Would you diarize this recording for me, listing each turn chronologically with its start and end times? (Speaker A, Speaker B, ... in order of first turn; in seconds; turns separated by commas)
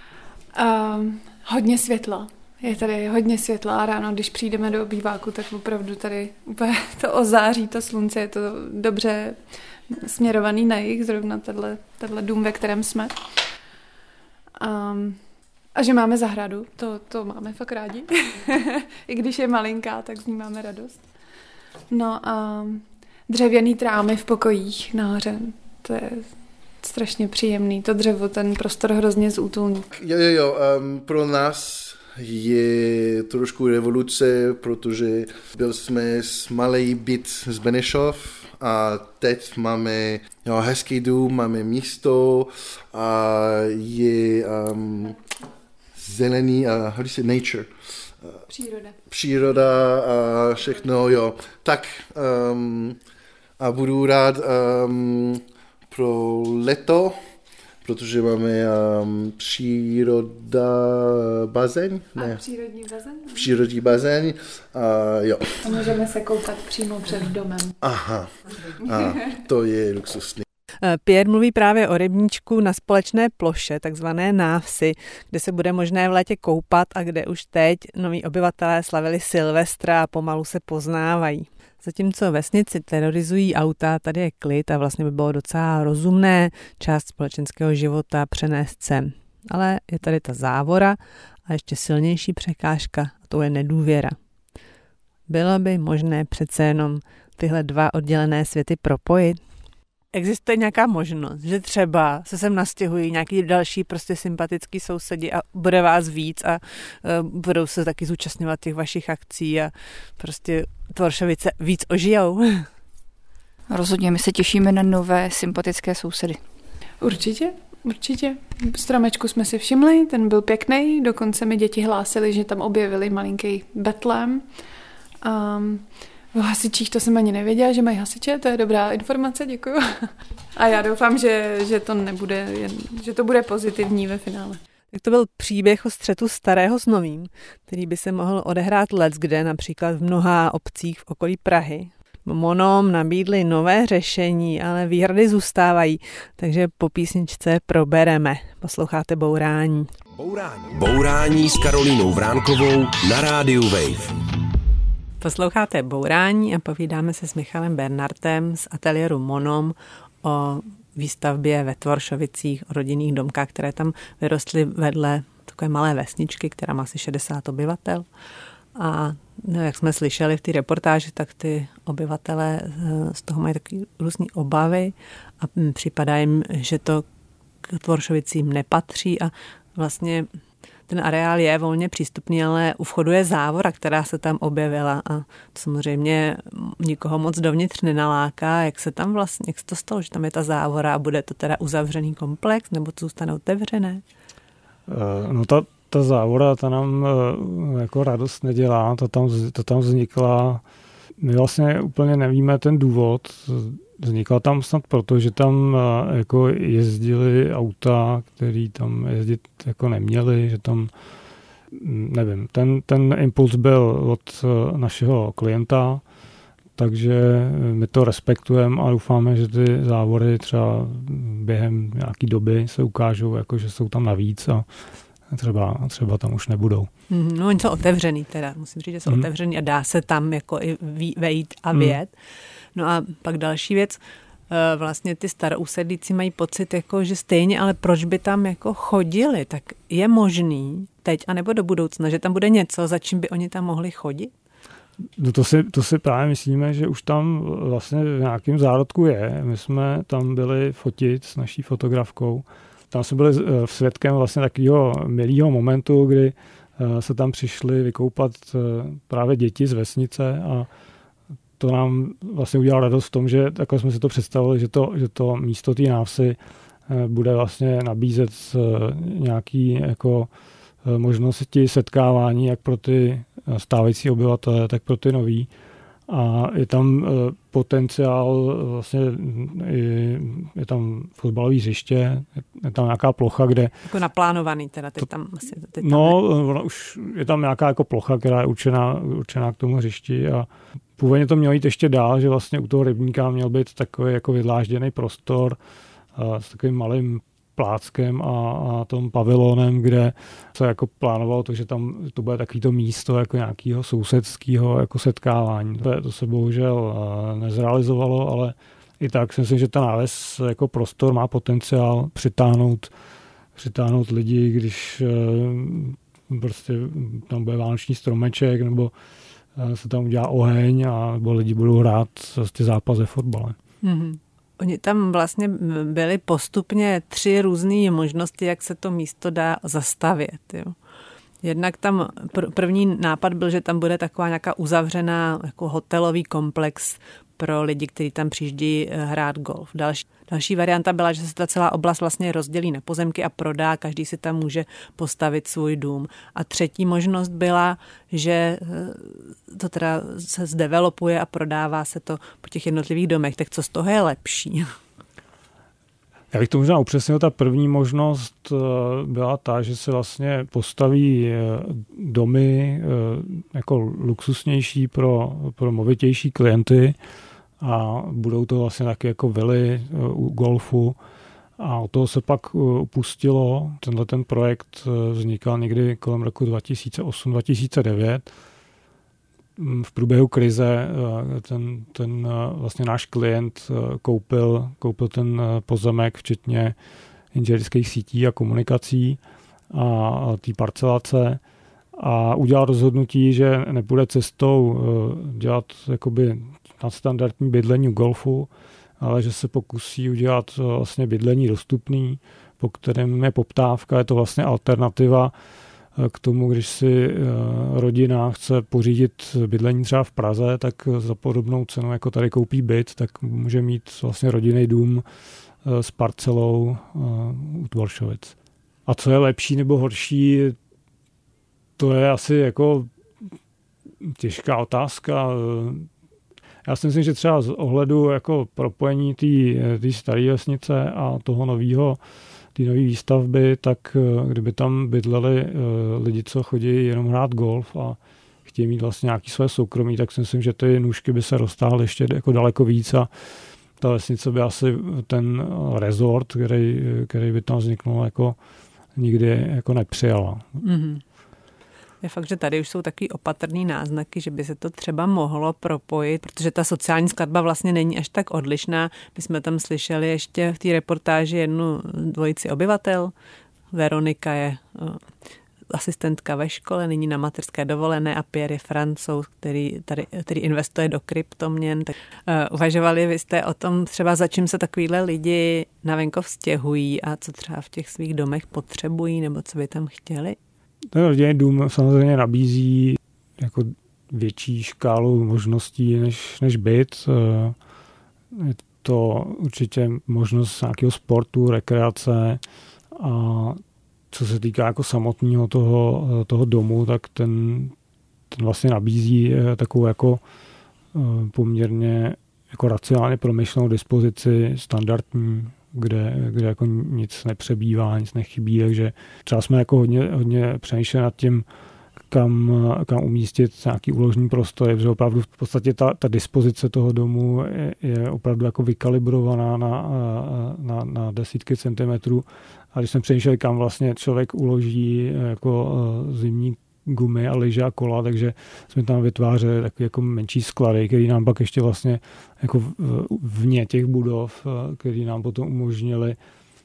Speaker A: 0.5-13.3, Speaker A: 14.6-15.2, Speaker A: 15.7-21.0, Speaker A: 21.9-29.9, Speaker B: 29.9-45.2, Speaker B: 46.0-47.7, Speaker A: 48.5-49.0, Speaker B: 49.1-53.0, Speaker B: 53.6-57.2, Speaker B: 57.8-62.4, Speaker A: 62.2-63.4, Speaker B: 63.3-65.5, Speaker A: 65.6-67.8, Speaker B: 67.8-70.4, Speaker C: 70.8-94.2, Speaker C: 95.3-99.4, Speaker C: 100.1-112.7, Speaker D: 113.7-116.4, Speaker A: 117.0-124.5, Speaker A: 125.2-134.6, Speaker C: 134.9-149.9, Speaker E: 150.1-154.2, Speaker C: 155.2-168.1, Speaker C: 168.7-177.0, Speaker C: 177.6-180.3, Speaker C: 180.9-194.0, Speaker F: 194.9-200.6, Speaker F: 201.2-210.9, Speaker F: 211.7-216.0, Speaker F: 216.8-224.7, Speaker F: 225.3-226.9, Speaker C: 227.1-232.1, Speaker C: 232.7-244.3, Speaker F: 245.2-260.7, Speaker F: 261.6-270.3, Speaker F: 270.8-275.5, Speaker F: 276.1-283.7, Speaker C: 283.9-286.2, Speaker F: 285.8-295.6, Speaker F: 296.1-312.9, Speaker F: 313.6-318.9, Speaker F: 319.5-323.6, Speaker C: 323.8-330.7, Speaker C: 331.4-354.7, Speaker F: 356.3-367.0, Speaker F: 367.6-371.0, Speaker F: 371.6-378.3, Speaker F: 379.6-386.8, Speaker F: 387.3-389.2, Speaker F: 389.7-391.4, Speaker F: 391.9-405.3, Speaker F: 405.9-415.0, Speaker F: 415.6-418.3, Speaker F: 418.9-420.6, Speaker F: 421.8-422.9, Speaker F: 424.0-425.9, Speaker F: 426.6-432.0, Speaker F: 432.5-443.1, Speaker F: 443.8-448.4, Speaker F: 448.9-450.6, Speaker C: 450.6-451.0, Speaker C: 452.0-463.1, Speaker C: 463.7-465.0, Speaker C: 465.7-480.4, Speaker F: 480.9-487.6, Speaker F: 488.3-493.6, Speaker F: 494.1-497.7, Speaker F: 498.3-500.2, Speaker F: 500.9-511.4, Speaker F: 512.1-536.2